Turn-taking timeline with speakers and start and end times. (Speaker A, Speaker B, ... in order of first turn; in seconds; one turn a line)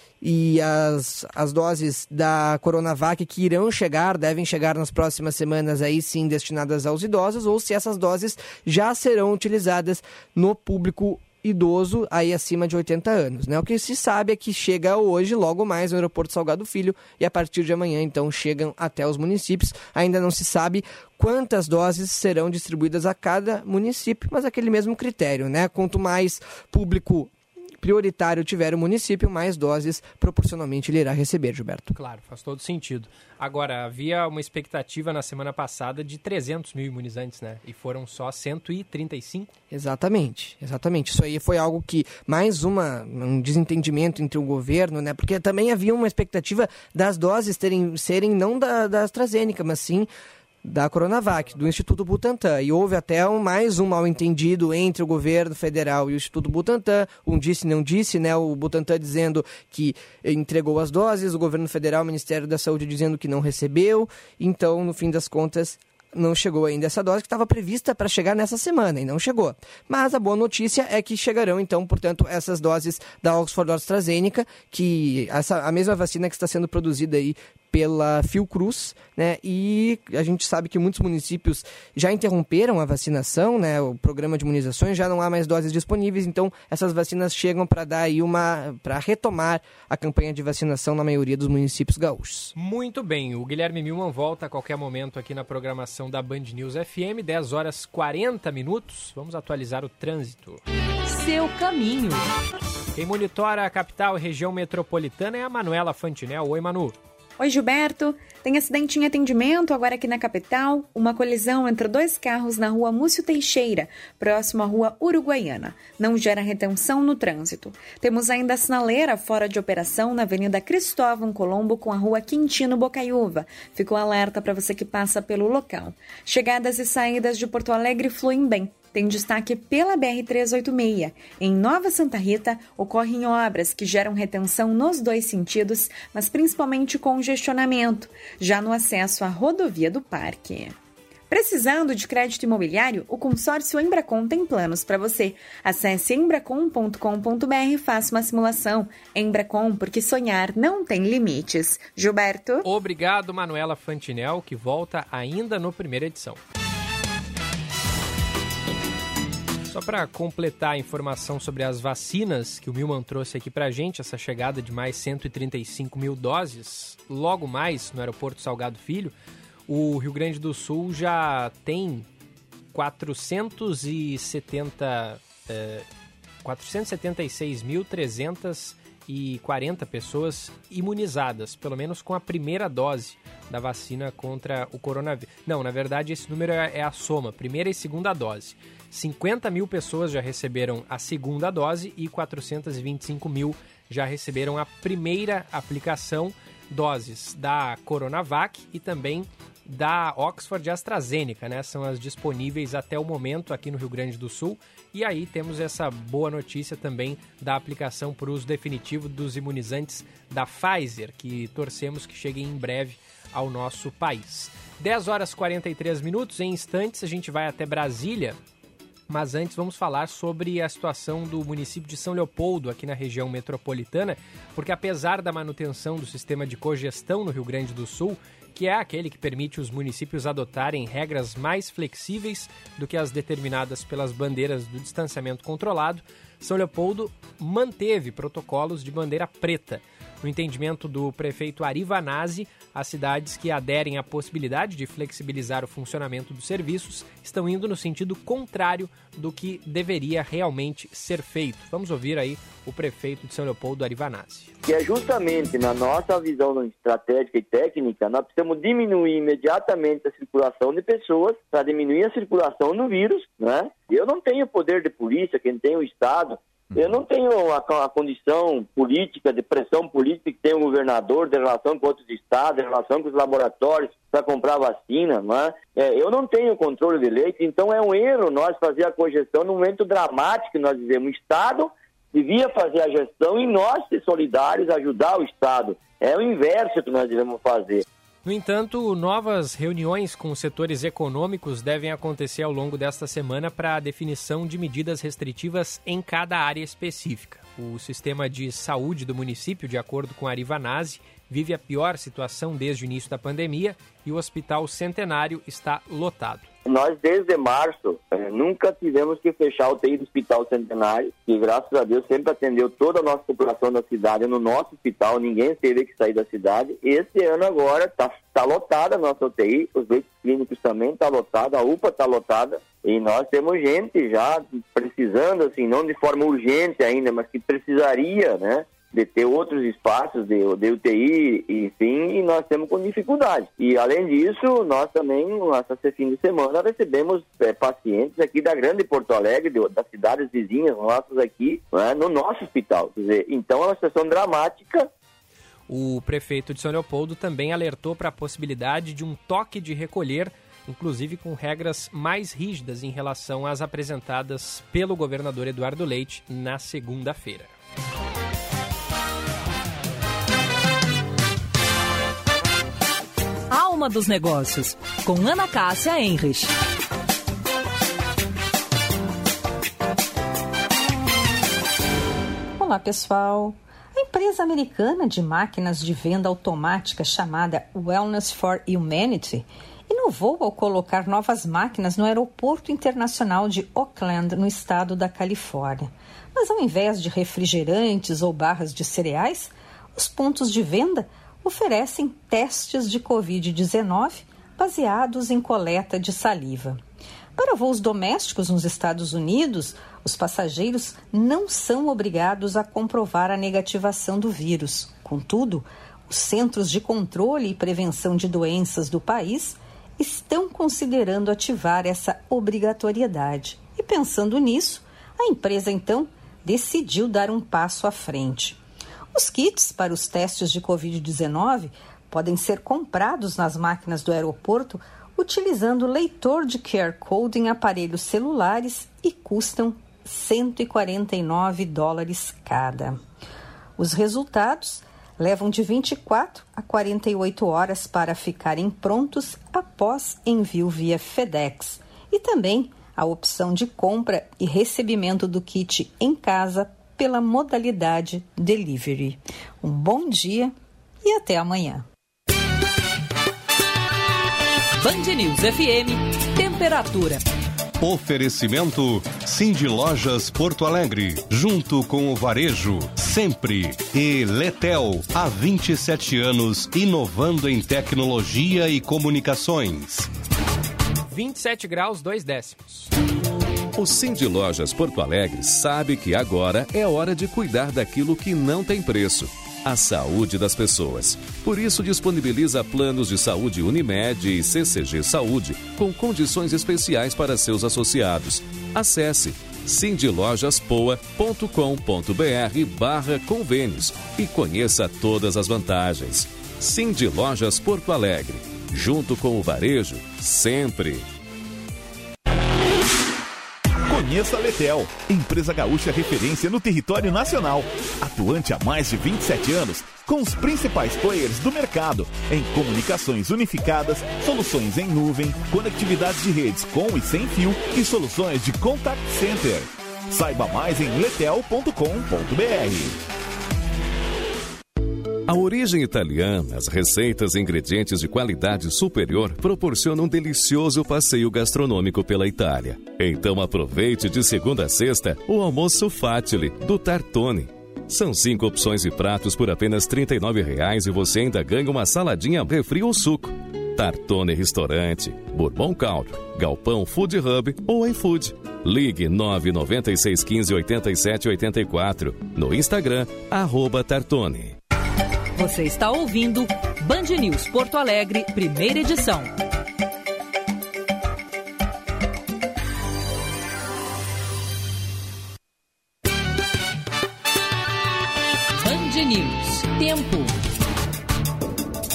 Speaker A: 0.2-31.9
Speaker B: 31.9-39.5
Speaker A: 39.7-50.1
Speaker A: 50.6-92.5
Speaker B: 92.6-100.6
Speaker C: 101.1-102.2
Speaker B: 103.0-107.0
Speaker D: 107.4-140.8
Speaker D: 141.3-152.7
Speaker B: 152.6-156.4
Speaker B: 159.7-169.1
Speaker B: 169.7-172.1
Speaker B: 172.7-175.9
Speaker B: 176.4-218.4
Speaker B: 219.1-254.5
Speaker E: 254.6-287.8
Speaker B: 288.2-306.5
Speaker E: 306.6-344.9
Speaker B: 345.7-357.5
Speaker C: 363.5-366.5
Speaker F: 372.6-396.8
Speaker F: 397.4-418.6
Speaker F: 419.1-433.0
Speaker F: 433.8-451.9
Speaker C: 454.8-457.2
Speaker G: 457.8-470.1
Speaker B: 471.1-472.9
Speaker H: 473.8-501.1
Speaker I: 503.9-523.0
Speaker H: 525.3-554.6
Speaker C: 555.4-559.3
Speaker C: 568.6-570.3